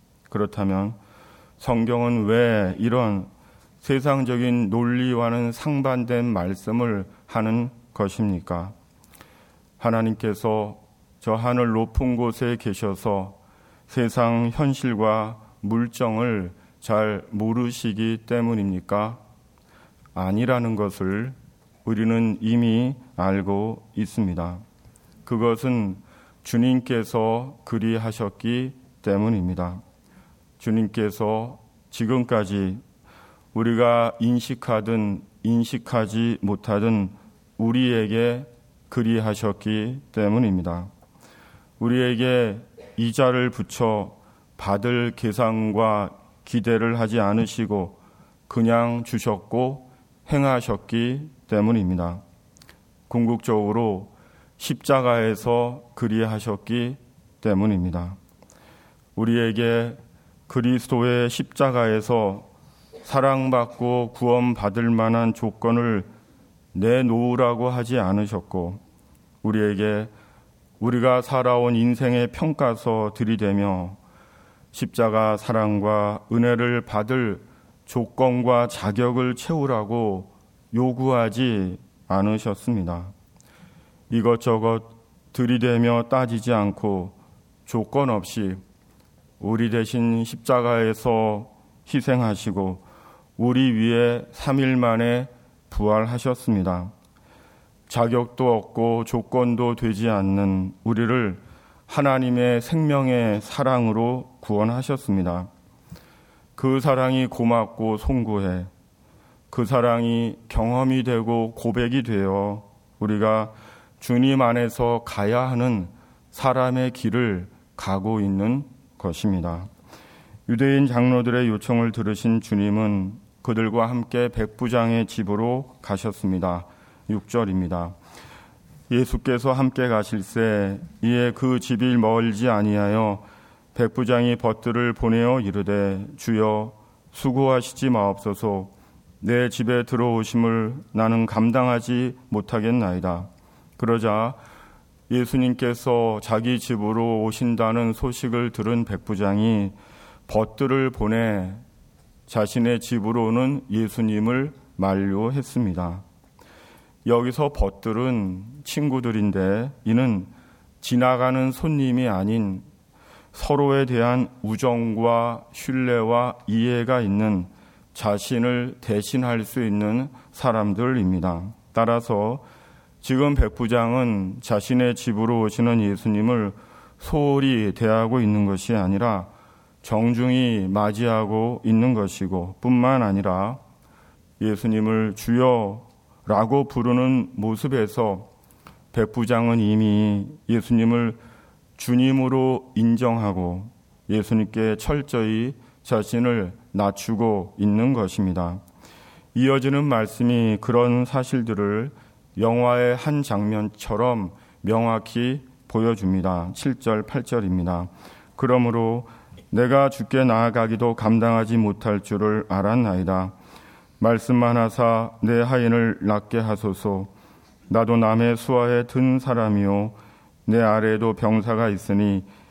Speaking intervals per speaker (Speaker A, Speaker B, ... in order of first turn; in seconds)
Speaker A: 0.3-1.0, 1.6-3.3, 3.8-8.7, 9.8-13.4, 13.9-19.2, 20.1-24.6, 25.2-29.8, 30.6-32.8, 33.5-40.9, 41.8-48.0, 48.5-52.2, 53.1-58.2, 59.1-62.5, 63.0-66.1, 66.7-68.8, 69.4-70.1, 70.8-74.0, 74.7-83.1, 84.1-87.1, 87.7-88.6, 89.4-92.8, 93.4-96.9, 97.9-105.5, 106.6-108.7, 109.5-119.7, 120.5-128.0, 128.9-144.4, 145.1-149.8, 150.3-151.6, 152.3-156.0, 157.0-162.6, 163.3-172.4, 173.0-179.3, 179.8-183.6, 184.4-188.3, 188.9-191.2, 191.8-198.6, 199.3-213.3, 214.0-217.1, 217.7-222.3